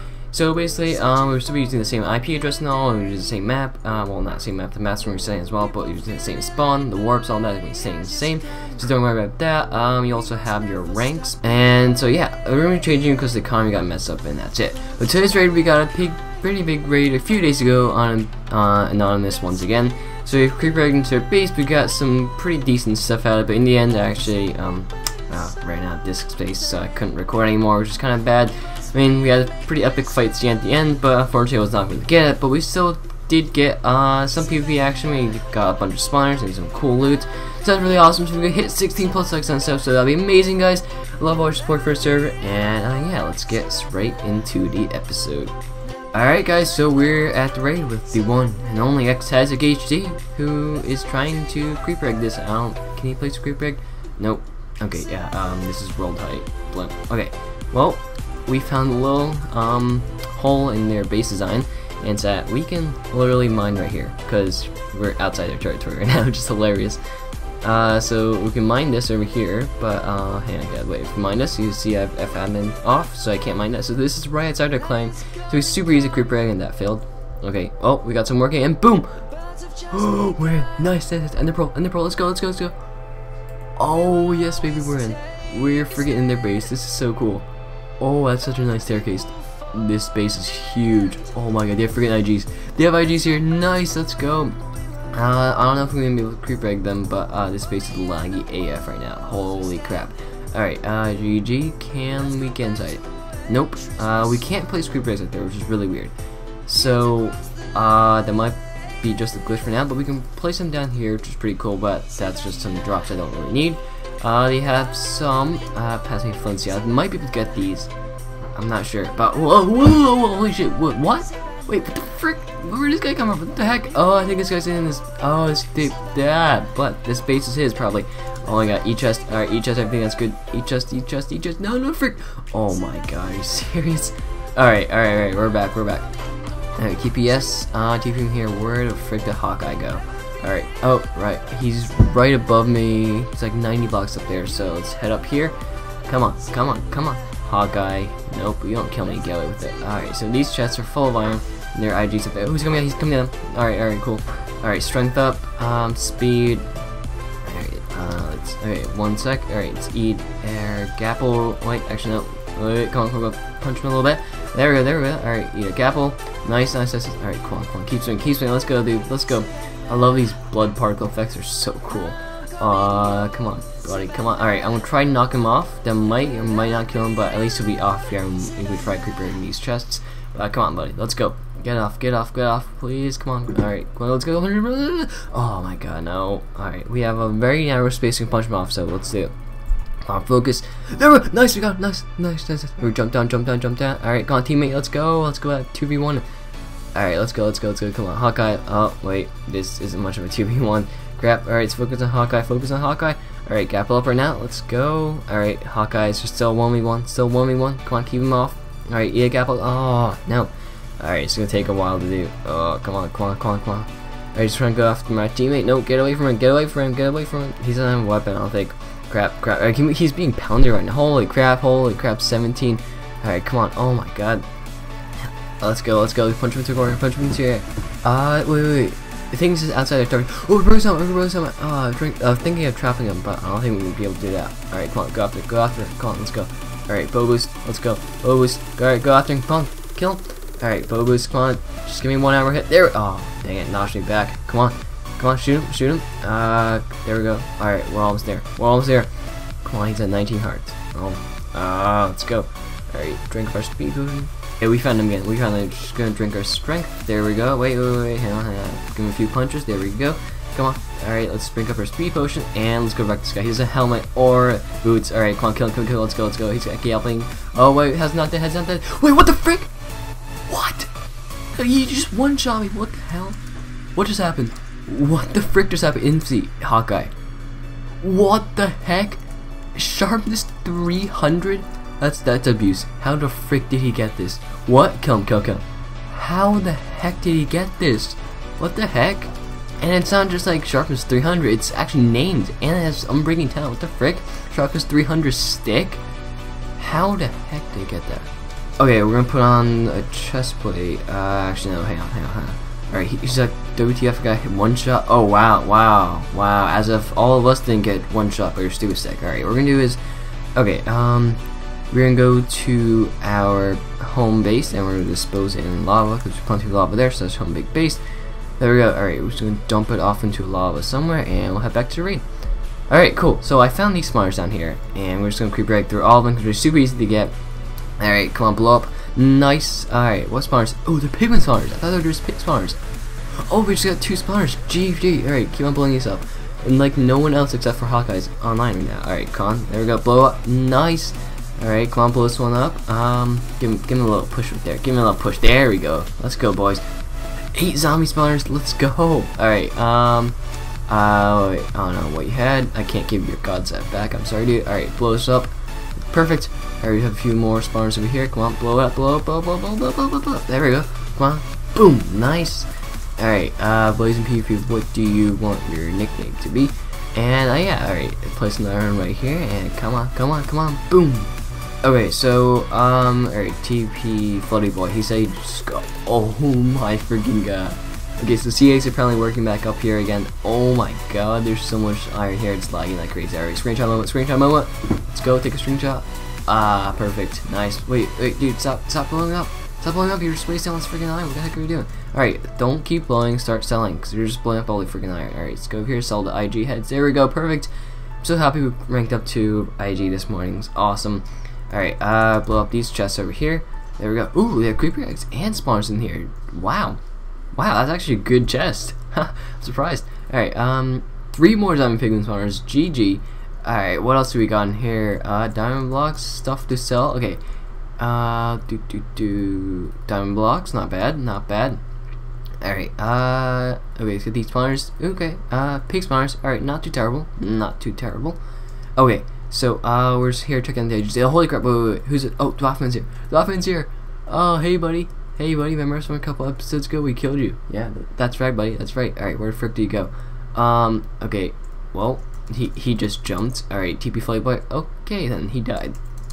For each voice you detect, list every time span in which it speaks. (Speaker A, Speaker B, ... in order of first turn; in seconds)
Speaker A: 0.3-45.5, 46.1-67.0, 67.6-79.2, 79.8-82.7, 83.8-87.5, 88.0-94.5, 95.1-106.1, 106.7-117.9, 118.5-136.1, 136.8-145.5, 146.1-156.7, 157.4-189.3, 190.0-196.2, 196.9-224.4, 225.6-249.1, 249.6-269.7, 270.5-270.9, 271.5-273.4, 273.9-277.1, 278.0-279.2, 279.7-296.0, 296.8-310.0, 310.6-318.0, 318.6-322.2, 322.9-327.3, 328.0-332.8, 333.4-346.8, 347.5-350.4, 350.9-355.5, 356.1-397.7, 398.2-407.0, 407.5-417.4, 418.0-421.8, 422.6-428.4, 428.9-446.0